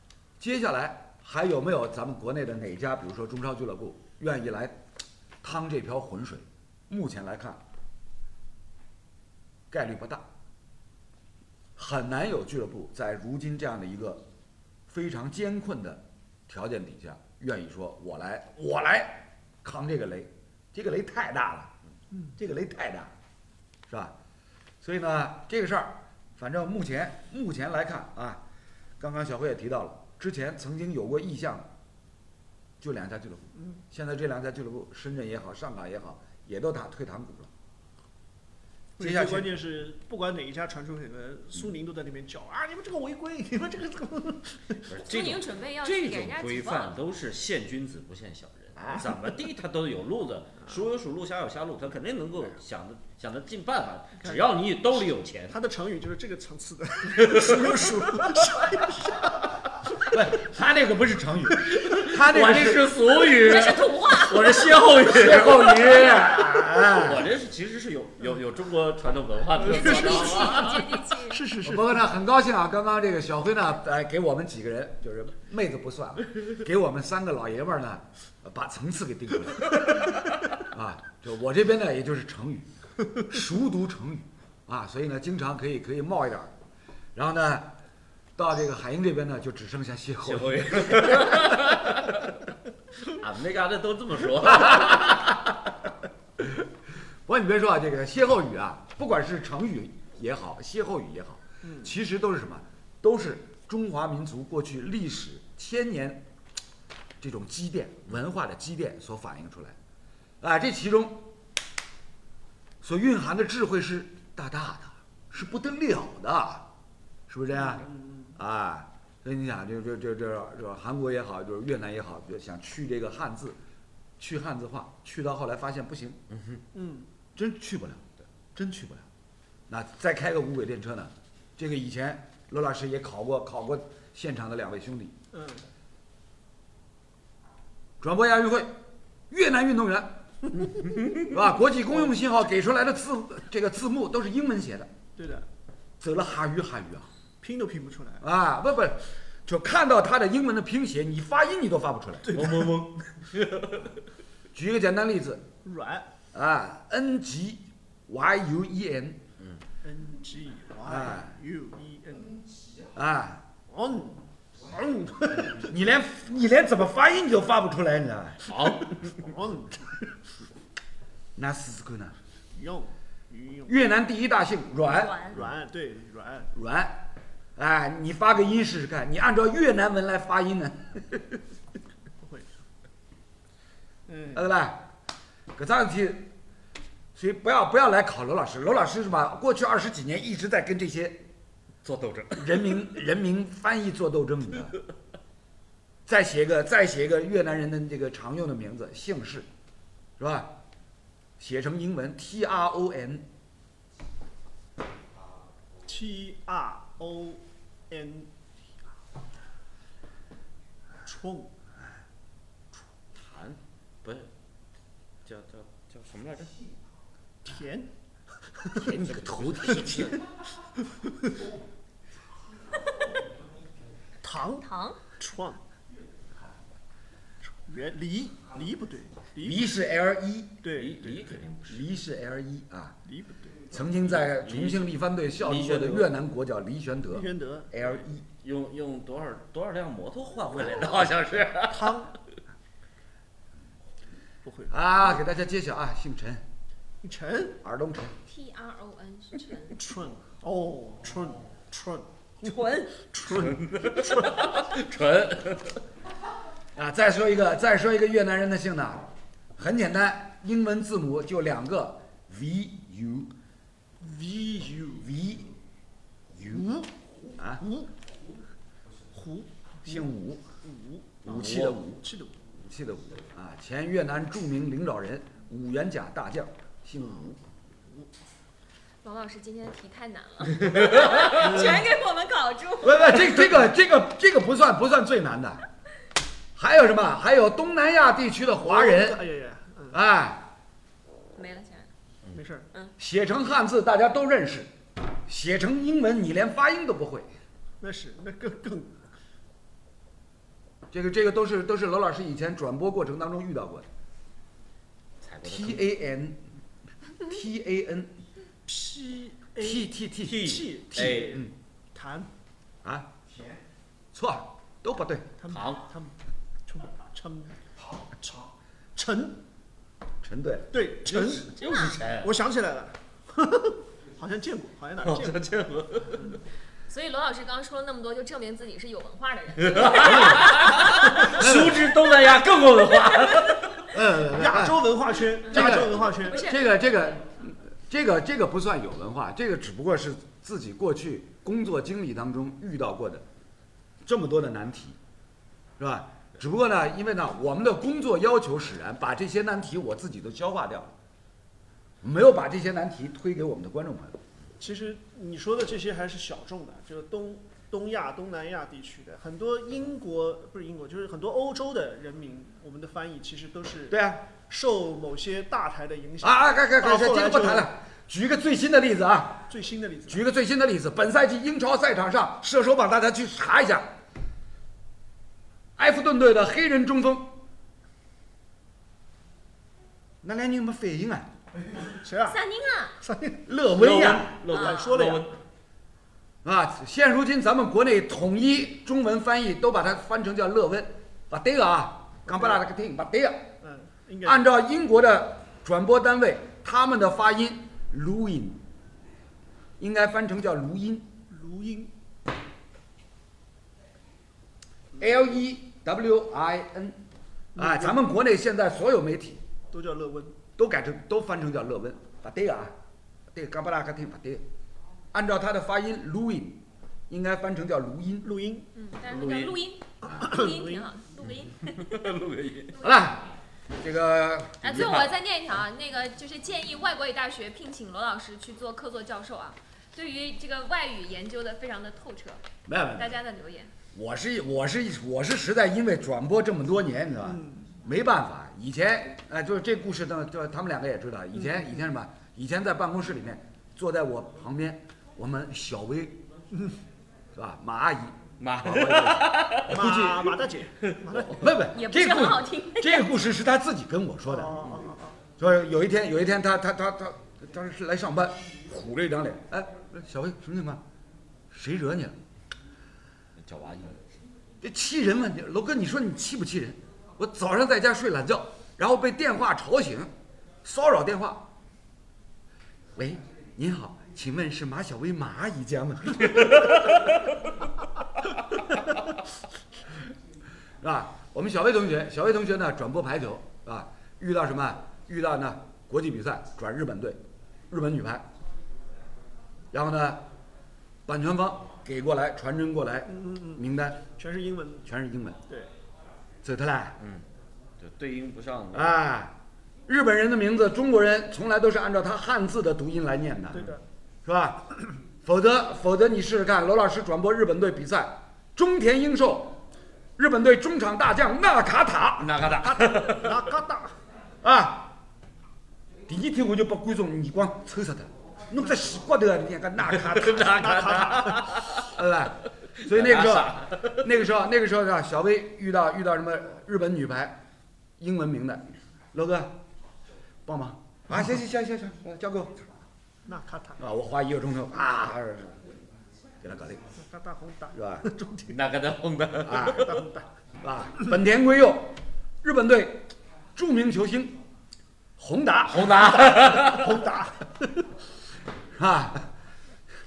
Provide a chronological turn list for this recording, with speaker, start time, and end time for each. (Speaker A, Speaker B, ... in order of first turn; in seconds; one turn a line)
Speaker A: 0.4-4.8
Speaker A: 5.4-7.6
Speaker A: 9.7-10.2
Speaker A: 11.8-14.2
Speaker A: 14.9-21.7
Speaker A: 22.4-23.1
Speaker A: 23.9-24.1
Speaker A: 24.8-28.4
Speaker A: 29.0-31.7
Speaker A: 32.8-37.5
Speaker B: 39.0-45.0
Speaker A: 39.0-39.5
Speaker C: 44.9-55.5
Speaker D: 45.0-47.0
Speaker A: 48.8-49.1
Speaker B: 55.5-59.6
Speaker C: 57.2-57.9
Speaker A: 60.0-63.0
Speaker C: 61.7-70.9
Speaker D: 63.3-64.7
Speaker A: 65.1-67.3
Speaker B: 69.6-72.0
Speaker D: 69.9-71.4
Speaker A: 71.6-86.5
Speaker A: 87.1-87.7
Speaker A: 88.4-91.5
Speaker C: 90.2-92.3
Speaker C: 93.0-95.2
Speaker A: 94.5-95.5
Speaker A: 96.4-96.7
Speaker A: 97.2-106.3
Speaker B: 101.6-101.9
Speaker A: 107.2-109.8
Speaker A: 110.4-111.3
Speaker A: 112.8-116.7
Speaker A: 117.3-123.6
Speaker B: 117.5-118.4
Speaker A: 124.2-126.2
Speaker B: 126.7-127.1
Speaker A: 127.3-129.1
Speaker A: 129.7-135.2
Speaker B: 135.3-135.7
Speaker A: 138.0-138.8
Speaker A: 139.3-140.2
Speaker A: 141.2-144.9
Speaker B: 145.1-145.5
Speaker A: 146.0-147.1
Speaker B: 147.4-148.2
Speaker A: 148.2-152.4
Speaker B: 152.3-152.8
Speaker C: 152.3-154.0
Speaker A: 154.5-155.4
Speaker B: 155.6-156.1
Speaker A: 156.3-159.2
Speaker B: 159.8-162.4
Speaker A: 160.8-161.3
Speaker A: 162.9-163.4
Speaker B: 163.7-165.7
Speaker A: 165.6-168.4
Speaker C: 168.5-169.2
Speaker B: 168.5-170.3
Speaker A: 171.3-172.2
Speaker B: 172.5-173.8
Speaker A: 173.7-175.2
Speaker D: 174.8-175.4
Speaker B: 175.3-176.5
Speaker A: 176.5-181.2
Speaker B: 182.2-182.6
Speaker B: 184.1-184.4
Speaker A: 184.3-184.9
Speaker A: 185.5-186.3
Speaker A: 187.1-191.2
Speaker C: 191.8-192.9
Speaker A: 192.3-194.8
Speaker A: 196.1-199.5
Speaker A: 200.2-200.6
Speaker A: 201.4-203.2
Speaker B: 205.8-208.3
Speaker B: 211.0-211.5
Speaker C: 213.2-214.3
Speaker C: 215.2-216.5
Speaker B: 217.4-217.9
Speaker B: 218.5-218.8
Speaker A: 218.7-220.1
Speaker C: 218.9-220.2
Speaker B: 219.9-220.2
Speaker B: 220.7-221.3
Speaker B: 224.2-225.6
Speaker D: 224.5-225.0
Speaker B: 227.4-229.8
Speaker A: 229.4-230.6
Speaker B: 230.6-231.0
Speaker C: 230.7-232.0
Speaker A: 231.7-232.9
Speaker B: 233.0-233.7
Speaker A: 233.7-238.2
Speaker C: 234.1-236.1
Speaker B: 237.1-237.7
Speaker C: 238.4-242.1
Speaker B: 241.7-242.1
Speaker B: 244.4-244.7
Speaker A: 244.7-246.4
Speaker B: 247.0-247.6
Speaker A: 247.6-248.1
Speaker D: 248.2-249.8
Speaker B: 249.7-254.7
Speaker D: 252.4-253.0
Speaker C: 253.3-255.8
Speaker A: 256.8-263.3
Speaker B: 264.0-265.1
Speaker A: 265.0-265.5
Speaker B: 266.4-266.9
Speaker A: 267.4-267.6
Speaker B: 267.6-267.9
Speaker B: 269.1-270.1
Speaker A: 269.8-270.4
Speaker B: 270.6-272.4
Speaker A: 271.2-272.0
Speaker A: 272.6-277.4
Speaker D: 279.0-283.6
Speaker B: 281.3-281.9
Speaker A: 282.8-285.6
Speaker A: 286.6-289.2
Speaker B: 288.6-290.0
Speaker A: 289.9-290.5
Speaker D: 291.3-291.9
Speaker B: 292.3-292.7
Speaker A: 293.0-294.7
Speaker A: 295.2-297.3
Speaker B: 297.8-299.0
Speaker A: 300.9-303.9
Speaker C: 305.2-305.9
Speaker A: 305.4-306.4
Speaker A: 307.1-308.1
Speaker B: 308.6-312.3
Speaker A: 309.6-311.5
Speaker C: 310.2-311.4
Speaker A: 312.8-313.1
Speaker A: 314.1-315.3
Speaker B: 315.4-319.4
Speaker C: 315.5-315.9
Speaker A: 320.2-321.4
Speaker B: 320.7-325.5
Speaker C: 321.2-322.3
Speaker C: 325.0-326.4
Speaker D: 326.9-331.3
Speaker C: 329.6-333.9
Speaker A: 330.0-330.5
Speaker A: 331.2-331.9
Speaker A: 333.9-343.2
Speaker B: 333.9-336.5
Speaker D: 335.5-336.7
Speaker A: 344.0-345.0
Speaker A: 345.8-350.9
Speaker A: 352.0-354.2
Speaker B: 354.6-367.7
Speaker A: 363.9-364.2
Speaker A: 366.2-369.5
Speaker B: 369.5-370.2
Speaker A: 370.1-373.9
Speaker A: 375.8-377.4
Speaker A: 380.2-381.3
Speaker B: 381.7-382.4
Speaker D: 382.2-383.0
Speaker B: 383.0-383.4
Speaker A: 383.5-384.4
Speaker C: 383.7-385.4
Speaker B: 384.4-385.3
Speaker D: 384.5-384.8
Speaker A: 386.4-393.5
Speaker B: 392.3-392.6
Speaker B: 393.6-394.5
Speaker A: 394.2-398.6
Speaker A: 399.8-401.1
Speaker B: 401.3-401.9
Speaker A: 405.0-407.0
Speaker B: 407.6-408.0
Speaker A: 407.6-409.4
Speaker B: 409.7-410.4
Speaker A: 410.6-412.7
Speaker A: 413.3-414.4
Speaker A: 415.1-418.3
Speaker B: 418.2-418.7
Speaker D: 418.7-422.0
Speaker C: 419.1-419.6
Speaker B: 420.0-420.9
Speaker C: 421.4-422.8
Speaker A: 422.8-423.3
Speaker A: 423.8-425.0
Speaker D: 424.6-432.4
Speaker C: 424.6-425.1
Speaker A: 432.6-433.1
Speaker D: 432.9-433.7
Speaker A: 433.9-446.2
Speaker B: 437.2-437.7
Speaker A: 447.3-450.2
Speaker C: 448.4-449.9
Speaker B: 449.7-451.6
Speaker C: 450.9-451.3
Speaker A: 451.3-454.8
Speaker D: 451.7-453.1
Speaker B: 454.3-455.2
Speaker A: 455.4-460.8
Speaker A: 461.5-462.1
Speaker C: 463.4-464.1
Speaker A: 464.6-470.1
Speaker A: 470.6-471.5
Speaker A: 472.9-476.9
Speaker A: 480.8-488.2
Speaker A: 489.7-490.2
Speaker A: 491.1-494.0
Speaker B: 493.1-494.9
Speaker A: 494.9-495.4
Speaker A: 496.4-497.0
Speaker C: 497.8-499.0
Speaker A: 498.7-499.3
Speaker A: 499.9-503.7
Speaker B: 503.5-503.8
Speaker A: 504.2-509.6
Speaker A: 510.2-512.3
Speaker C: 512.2-513.5
Speaker B: 512.6-514.0
Speaker A: 514.4-515.0
Speaker A: 516.1-520.9
Speaker C: 520.1-521.9
Speaker B: 520.5-521.7
Speaker A: 521.7-527.4
Speaker C: 522.8-524.0
Speaker A: 528.0-529.6
Speaker A: 530.5-532.7
Speaker B: 533.2-533.8
Speaker A: 533.8-535.6
Speaker A: 536.4-536.8
Speaker B: 536.9-538.6
Speaker A: 537.7-538.1
Speaker C: 538.5-540.0
Speaker A: 539.4-539.9
Speaker B: 539.7-540.2
Speaker A: 540.6-544.4
Speaker A: 545.2-546.3
Speaker C: 545.7-547.0
Speaker B: 545.9-547.9
Speaker A: 548.7-549.3